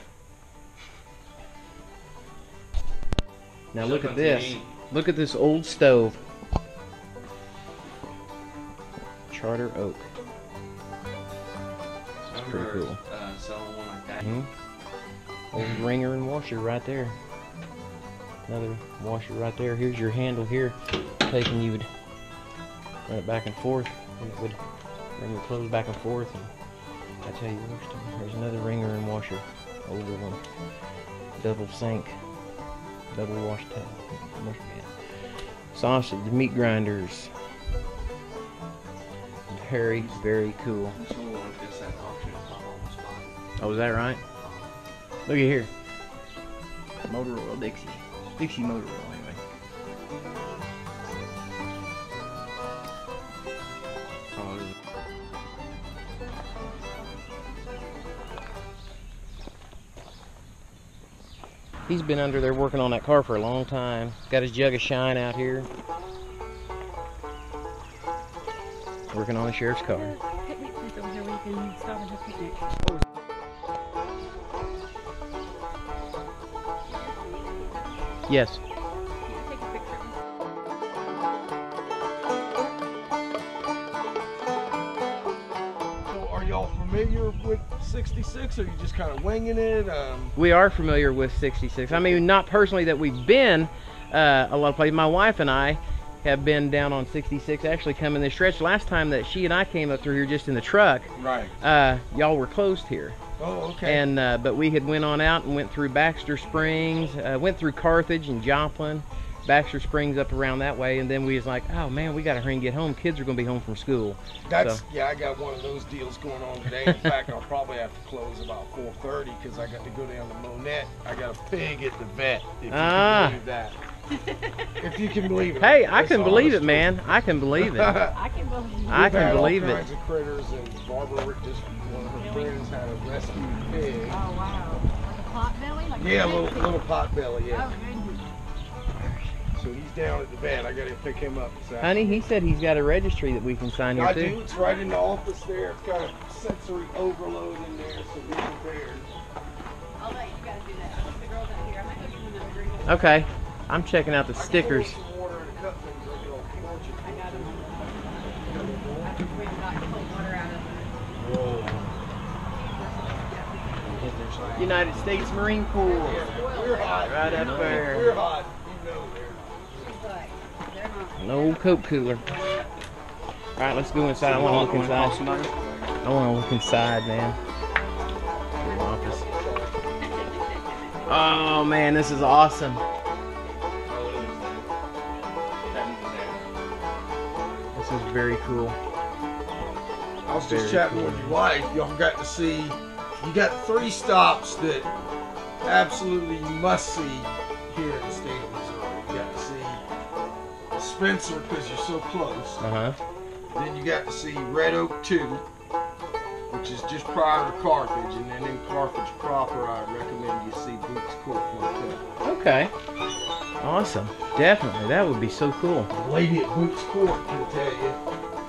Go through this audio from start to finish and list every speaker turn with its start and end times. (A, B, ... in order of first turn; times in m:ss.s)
0:03.7-0:06.2 A
0:03.8-0:04.7 B
0:09.3-0:10.1 A
0:12.2-0:14.4 B
0:12.3-0:13.0 A
0:14.2-0:14.5 A
0:15.5-0:17.2 A
0:18.5-0:21.9 A
0:23.1-0:26.5 A
0:27.2-0:30.5 A
0:31.4-0:32.2 A
0:33.1-0:37.3 A
0:39.5-0:41.0 A
0:39.9-0:40.2 B
0:40.9-0:43.4 B
0:43.6-0:44.2 A
0:44.4-0:44.7 B
0:45.3-0:45.7 A
0:47.0-0:49.4 A
1:01.9-1:05.7 A
1:09.1-1:10.2 A
1:09.9-1:12.7 C
1:16.9-1:18.1 C
1:18.3-1:18.6 A
1:19.3-1:20.1 C
1:26.1-1:30.4 D
1:30.4-1:43.2 A
1:31.9-1:32.2 D
1:41.2-1:41.5 D
1:43.4-1:44.1 D
1:43.8-1:54.8 A
1:54.4-2:03.8 D
2:02.7-2:03.4 A
2:04.8-2:06.9 D
2:05.5-2:08.0 A
2:07.6-2:08.2 D
2:08.0-2:09.6 C
2:08.9-2:14.2 D
2:08.9-2:09.9 A
2:12.1-2:12.5 C
2:14.1-2:16.8 C
2:16.0-2:17.7 D
2:17.5-2:18.2 C
2:18.9-2:19.4 A
2:19.5-2:22.2 D
2:21.8-2:24.4 A
2:23.9-2:29.1 D
2:30.0-2:33.3 C
2:32.9-2:35.0 A
2:34.3-2:37.6 D
2:36.3-2:41.0 C
2:38.4-2:39.1 D
2:41.1-2:42.0 D
2:42.4-2:44.5 C
2:44.0-2:45.0 B
2:44.3-2:44.8 D
2:44.6-2:46.2 A
2:45.7-2:47.7 C
2:45.8-2:49.9 D
2:47.0-2:48.1 A
2:47.3-2:48.1 B
2:49.7-2:52.7 C
2:51.2-2:52.4 A
2:53.6-2:55.2 A
2:54.2-2:55.5 B
2:56.0-2:57.4 A
2:58.6-2:59.4 C
2:58.6-2:59.2 A
2:59.0-2:59.7 D
3:00.1-3:00.9 C
3:01.1-3:02.8 A
3:03.9-3:04.7 B
3:05.6-3:06.4 B
3:07.8-3:08.8 A
3:10.3-3:14.9 D
3:10.3-3:11.4 A
3:15.6-3:19.8 D
3:20.8-3:22.6 D
3:22.6-3:23.0 A
3:23.5-3:25.4 D
3:26.5-3:32.0 D
3:32.2-3:32.7 A
3:33.6-3:35.9 A
3:35.9-3:38.0 D